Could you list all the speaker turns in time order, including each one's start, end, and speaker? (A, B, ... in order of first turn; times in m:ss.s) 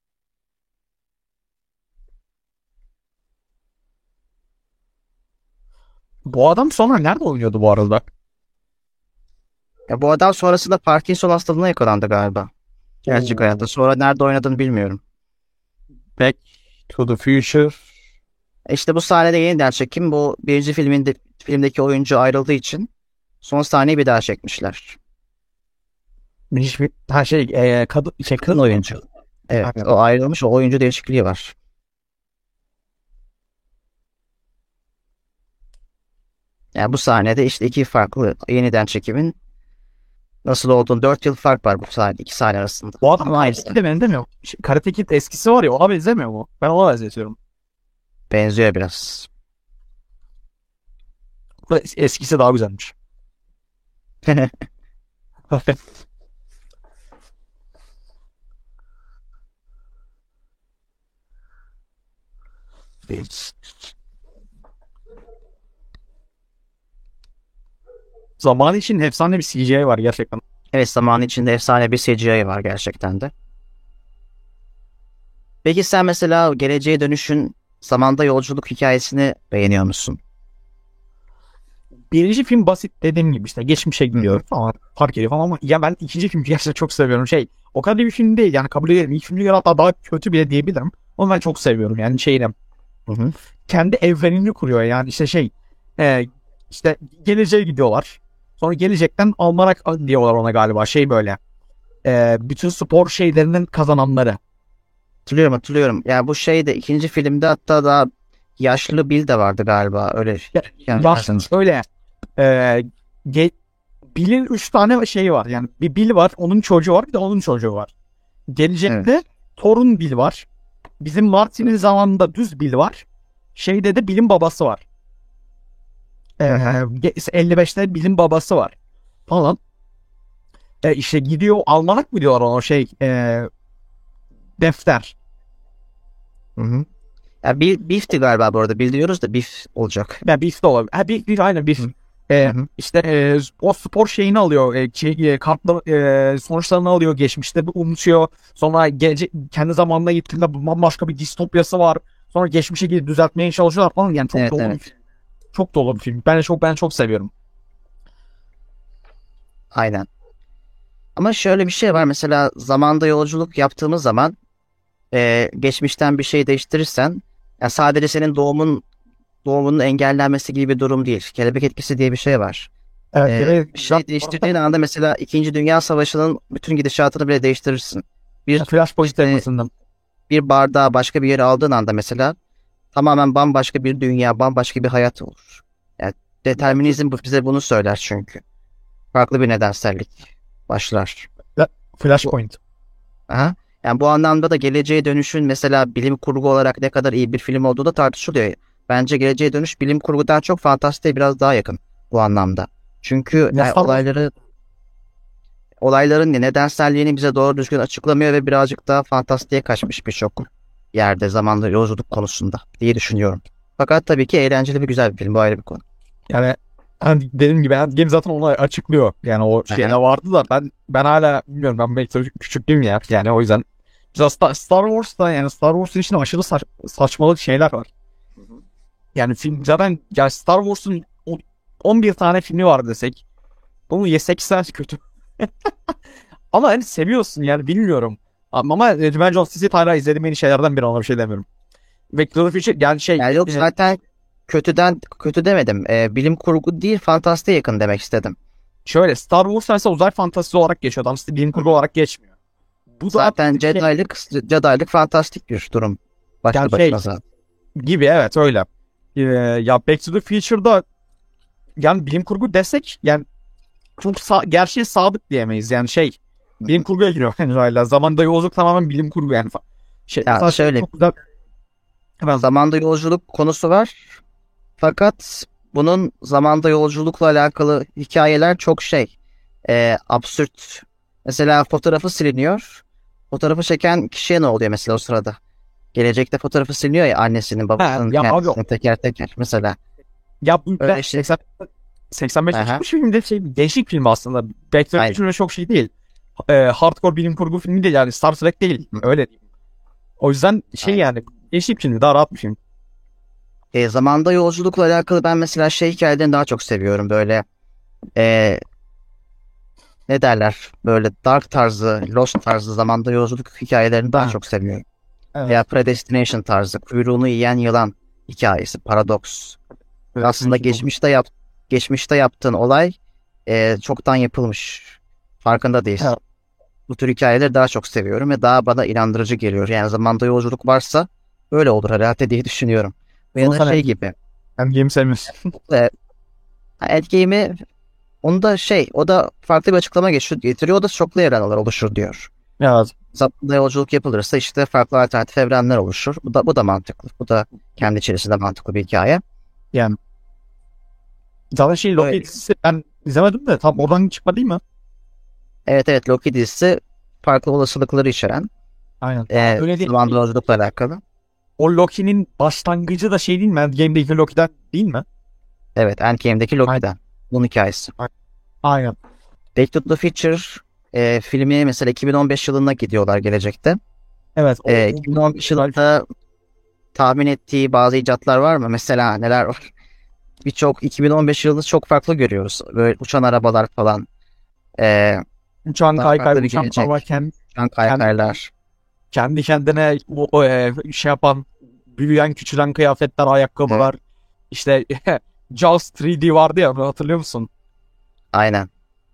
0:06.3-0:08.0 A
0:09.9-0:12.5 B
0:13.1-0:13.4 A
0:13.1-0:15.0 B
0:16.2-0:17.8 A
0:18.7-0:22.9 B
0:23.4-0:25.0 B
0:26.5-0:28.8 A
0:28.5-0:31.6 B
0:29.6-0:29.9 A
0:36.8-0:39.4 B
0:40.4-0:43.8 B
0:43.0-0:47.4 A
0:48.3-0:49.3 B
0:51.7-0:52.9 A
0:54.3-0:54.5 B
0:55.5-0:55.8 A
1:03.1-1:03.5 A
1:08.4-1:10.4 A
1:10.7-1:13.3 B
1:15.6-1:20.2 B
1:22.1-1:32.5 A
1:24.1-1:24.4 B
1:33.1-1:33.3 B
1:33.7-1:41.4 A
1:42.0-1:44.4 A
1:45.3-1:51.5 B
1:50.6-1:51.8 A
1:52.4-1:53.5 A
1:54.1-1:57.9 A
1:58.5-2:00.5 A
2:01.0-2:03.0 A
2:03.6-2:04.8 A
2:06.4-2:08.8 A
2:09.3-2:09.6 A
2:10.8-2:13.5 A
2:14.6-2:15.1 A
2:16.6-2:16.9 B
2:17.4-2:20.2 B
2:20.2-2:34.9 A
2:34.3-2:34.8 B
2:35.5-2:37.3 A
2:39.7-2:40.1 B
2:41.2-2:44.4 B
2:45.1-2:48.8 B
2:49.4-2:52.7 B
2:53.1-2:54.5 A
2:53.3-2:59.4 B
2:58.6-2:59.7 A
3:00.3-3:02.4 B
3:02.9-3:08.4 B
3:06.7-3:07.0 A
3:09.1-3:11.3 B
3:11.6-3:12.6 A
3:13.3-3:24.3 B
3:23.5-3:24.0 A
3:25.8-3:35.8 B
3:36.3-3:47.9 A
3:39.7-3:40.0 B
3:49.2-3:53.2 A
3:53.9-3:55.9 A
3:56.5-4:01.4 A
4:02.1-4:03.6 A
4:03.2-4:08.4 B
4:08.8-4:12.2 A
4:13.0-4:13.8 A
4:13.1-4:17.2 B
4:16.5-4:17.0 A
4:17.8-4:20.8 A
4:21.8-4:23.3 A
4:24.0-4:31.1 A
4:30.3-4:30.9 B
4:32.4-4:34.2 B
4:34.8-4:39.1 B
4:39.7-4:45.4 B
4:45.9-4:49.8 B
4:47.8-4:48.6 A
4:50.4-4:51.4 A
4:50.8-4:51.3 B
4:52.1-4:55.9 A
4:52.5-4:52.8 B
4:56.5-4:59.3 A
5:00.2-5:02.6 A
5:03.7-5:07.4 B
5:08.2-5:08.6 B
5:10.1-5:14.8 B
5:15.3-5:15.6 A
5:15.5-5:19.6 B
5:20.2-5:20.8 A
5:20.2-5:26.1 B
5:26.9-5:34.2 B
5:33.4-5:33.8 A
5:34.6-5:35.4 A
5:36.8-5:37.6 B
5:38.2-5:42.3 B
5:42.6-5:42.9 A
5:43.1-5:49.2 B
5:51.5-5:54.6 A
5:52.0-5:52.2 B
5:55.7-5:58.5 B
5:59.0-5:59.9 A
5:59.3-6:01.0 B
6:01.6-6:05.0 A
6:05.8-6:07.9 B
6:08.6-6:09.0 A
6:09.6-6:13.8 B
6:14.4-6:15.7 A
6:14.7-6:16.1 B
6:16.9-6:19.7 B
6:20.4-6:24.1 B
6:24.8-6:25.2 B
6:25.7-6:27.3 A
6:26.0-6:27.0 B
6:27.5-6:28.5 B
6:29.1-6:34.0 A
6:34.5-6:37.5 A
6:38.3-6:38.7 B